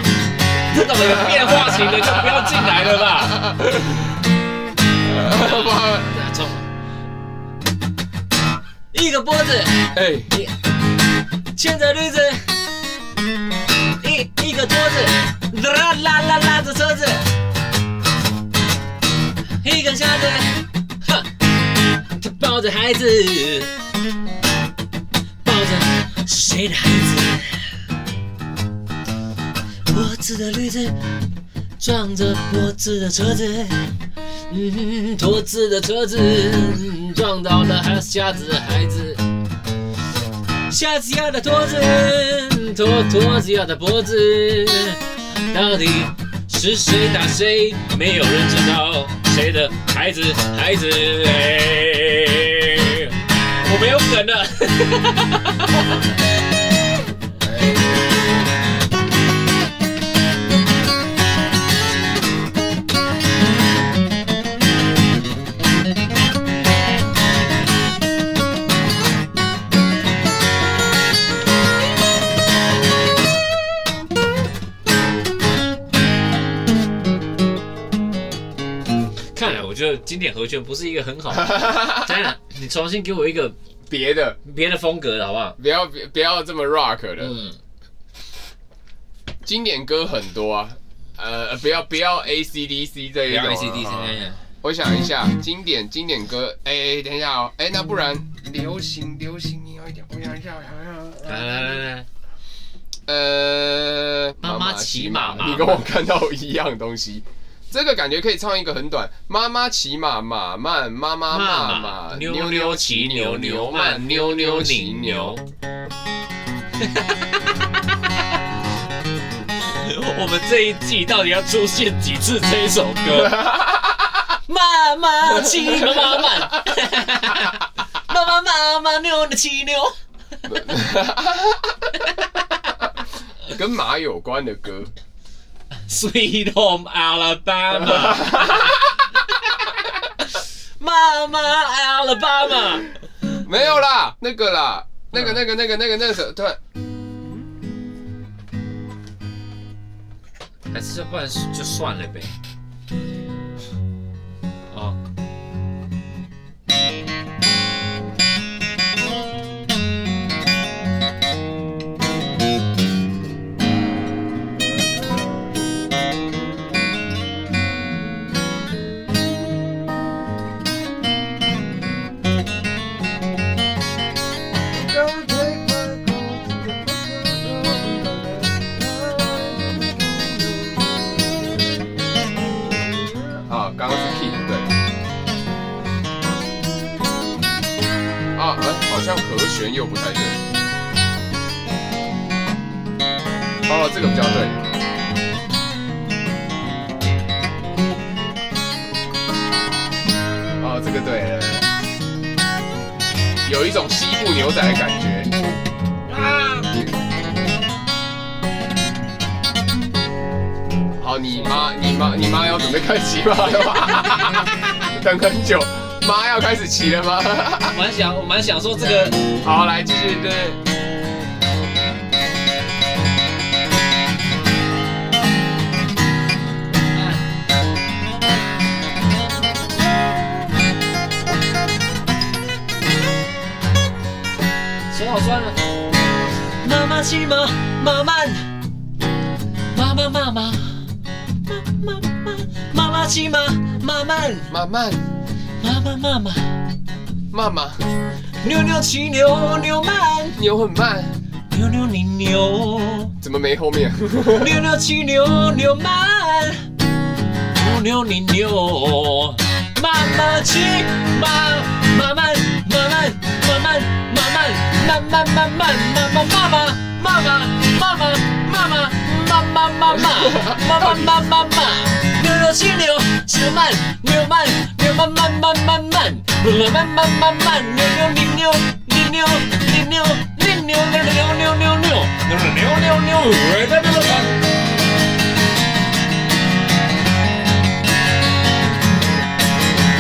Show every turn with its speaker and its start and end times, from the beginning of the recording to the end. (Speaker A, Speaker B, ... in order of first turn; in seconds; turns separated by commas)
Speaker A: 0.7-3.5, Speaker B: 0.8-4.2, Speaker B: 5.0-6.1, Speaker A: 5.3-6.7, Speaker A: 8.9-10.5, Speaker B: 9.9-10.3, Speaker A: 11.5-12.5, Speaker A: 14.0-17.2, Speaker A: 19.6-21.3, Speaker A: 22.2-23.7, Speaker A: 25.4-27.7, Speaker A: 29.9-31.0, Speaker A: 31.8-33.9, Speaker A: 34.5-39.2, Speaker A: 40.7-55.9, Speaker B: 57.4-57.9, Speaker A: 79.3-83.5, Speaker B: 81.3-82.3, Speaker B: 83.9-84.4, Speaker A: 84.4-85.6, Speaker B: 85.6-87.3, Speaker A: 87.2-87.5, Speaker B: 89.4-101.8, Speaker A: 93.3-94.4, Speaker A: 101.2-102.0, Speaker B: 103.1-115.4, Speaker A: 104.4-105.9, Speaker A: 111.3-115.4, Speaker A: 116.8-117.3, Speaker A: 119.6-123.5, Speaker B: 123.1-124.3, Speaker A: 124.5-129.9, Speaker B: 125.2-126.6, Speaker B: 130.5-131.9, Speaker B: 133.4-134.9, Speaker A: 135.9-138.8, Speaker B: 137.7-139.0, Speaker A: 140.3-143.4, Speaker B: 143.4-146.6, Speaker A: 145.1-145.4, Speaker A: 150.7-152.3, Speaker A: 154.7-155.0, Speaker B: 174.8-180.3, Speaker B: 183.3-184.7, Speaker B: 188.3-190.4, Speaker B: 193.7-194.6, Speaker B: 200.6-201.7, Speaker B: 203.4-205.3, Speaker A: 206.1-206.7, Speaker B: 211.0-217.8, Speaker A: 211.3-211.7, Speaker A: 217.7-219.4, Speaker B: 219.2-220.6, Speaker A: 226.9-227.2, Speaker A: 234.9-235.6, Speaker A: 236.6-238.5, Speaker A: 239.7-240.9, Speaker A: 241.4-244.5, Speaker B: 244.5-245.0, Speaker A: 245.6-246.6, Speaker B: 247.3-247.8, Speaker A: 248.4-250.4, Speaker B: 250.3-251.2, Speaker A: 251.5-253.1, Speaker B: 253.2-254.6, Speaker A: 254.3-256.7, Speaker A: 257.5-284.4, Speaker B: 270.3-271.1